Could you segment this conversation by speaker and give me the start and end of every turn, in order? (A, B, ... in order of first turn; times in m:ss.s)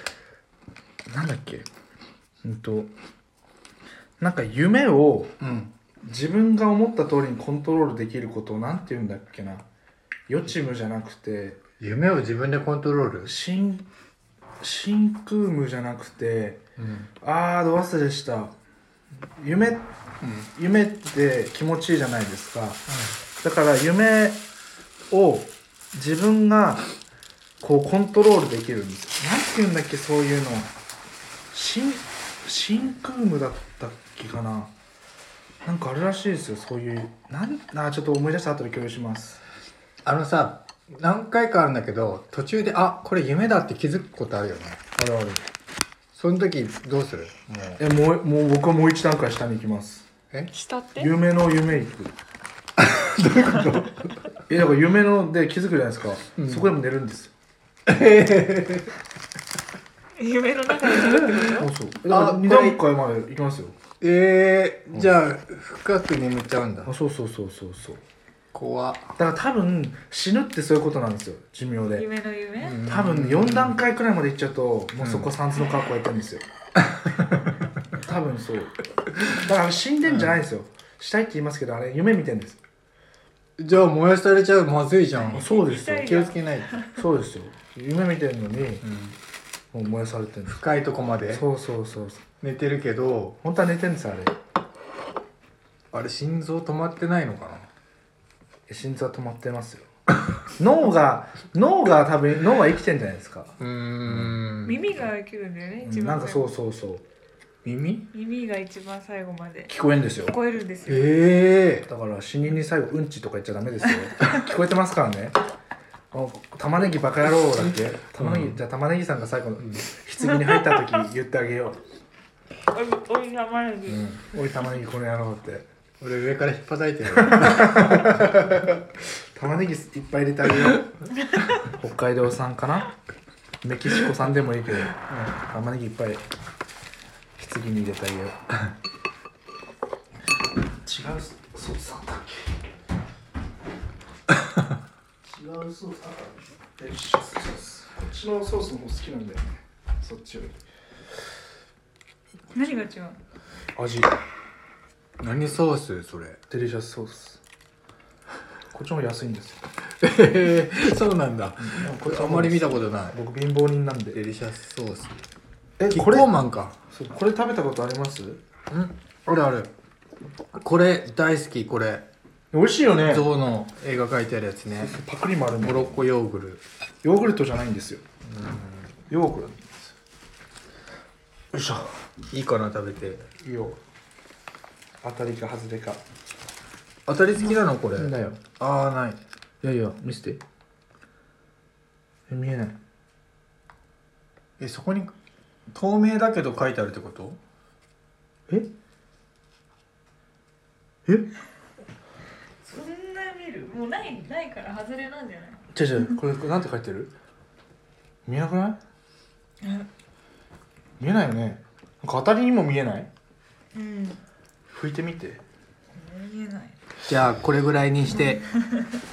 0:01.1-0:01.7 A
0:02.4-0:02.9 A
0:04.2-0:05.4 A
0:05.4-0:05.7 B
0:06.0-0:09.6 A
0:10.3-0:11.6 A
0:11.8-0:13.3 B
0:13.2-0:13.8 A
0:14.6-0:16.6 A
0:16.8-0:17.1 B
0:17.2-0:18.5 A
0:19.4-0:19.9 A
0:20.2-0:20.5 B
0:20.5-0:22.8 A
0:22.9-0:23.1 B
0:23.4-0:24.4 A
0:25.1-0:26.8 A
0:27.6-0:30.7 A
0:31.5-0:34.7 A
0:35.6-0:39.4 A
0:40.0-0:44.8 B
0:45.0-0:45.4 A
0:46.1-0:47.3 B
0:47.5-0:50.1 A
0:50.5-0:51.1 C
0:51.0-0:52.2 A
0:52.8-0:54.1 B
0:54.5-0:57.3 A
0:56.4-0:56.7 B
0:57.8-0:58.9 B
1:00.2-1:01.7 C
1:00.9-1:01.5 B
1:01.5-1:03.8 A
1:02.1-1:02.8 B
1:04.0-1:06.9 B
1:04.9-1:05.1 A
1:06.8-1:08.0 A
1:08.5-1:09.1 B
1:09.2-1:12.1 A
1:11.9-1:12.8 C
1:12.6-1:13.8 B
1:12.8-1:16.4 A
1:15.0-1:15.3 B
1:16.9-1:17.5 B
1:18.0-1:18.7 A
1:19.3-1:22.6 A
1:20.0-1:20.4 B
1:23.6-1:26.8 B
1:25.3-1:27.0 C
1:25.3-1:26.2 A
1:27.0-1:28.8 A
1:28.8-1:29.2 B
1:29.7-1:30.6 A
1:30.5-1:31.4 B
1:31.3-1:32.2 A
1:32.4-1:33.4 B
1:33.4-1:34.3 A
1:35.9-1:37.7 B
1:38.7-1:39.9 A
1:40.5-1:44.4 A
1:43.6-1:44.8 B
1:44.6-1:46.5 C
1:45.8-1:47.0 A
1:47.6-1:48.0 B
1:48.1-1:49.7 C
1:49.7-1:50.4 A
1:50.3-1:51.1 C
1:50.8-1:51.9 B
1:51.9-1:55.4 A
1:56.1-2:01.8 A
1:57.6-1:58.6 B
2:02.7-2:04.0 C
2:03.9-2:05.7 A
2:06.0-2:08.8 B
2:07.2-2:08.7 A
2:09.4-2:10.9 A
2:11.6-2:12.9 A
2:13.6-2:16.2 A
2:15.1-2:15.3 B
2:17.4-2:18.4 A
2:20.8-2:22.6 A
2:25.2-2:30.6 A
2:32.5-2:33.2 C
2:33.8-2:34.1 A
2:35.2-2:36.4 B
2:36.5-2:37.4 A
2:38.7-2:39.6 A
2:40.0-2:43.1 B
2:41.6-2:44.2 A
2:44.1-2:45.2 B
2:45.8-2:46.3 A
2:45.9-2:46.8 B
2:46.9-2:48.4 A
2:48.7-2:49.7 B
2:50.6-2:52.0 B
2:52.5-2:53.3 A
2:53.0-2:55.0 B
2:54.7-2:56.0 A
2:55.6-2:56.6 B
2:57.0-2:58.0 A
2:58.2-2:58.9 B
2:59.1-2:59.7 A
3:01.5-3:02.0 A
3:02.3-3:03.3 B
3:03.4-3:03.8 A
3:05.0-3:06.0 A
3:07.0-3:09.2 B
3:07.9-3:08.4 A
3:09.6-3:10.4 A
3:12.3-3:12.8 A
3:14.6-3:15.1 B
3:15.7-3:17.4 B
3:22.6-3:26.2 C
3:25.7-3:27.1 A
3:28.2-3:28.8 A
3:29.6-3:29.9 C
3:31.0-3:33.1 A
3:33.7-3:34.2 C
3:34.7-3:35.4 A
3:35.9-3:36.7 C
3:37.1-3:38.4 B
3:38.2-3:38.9 C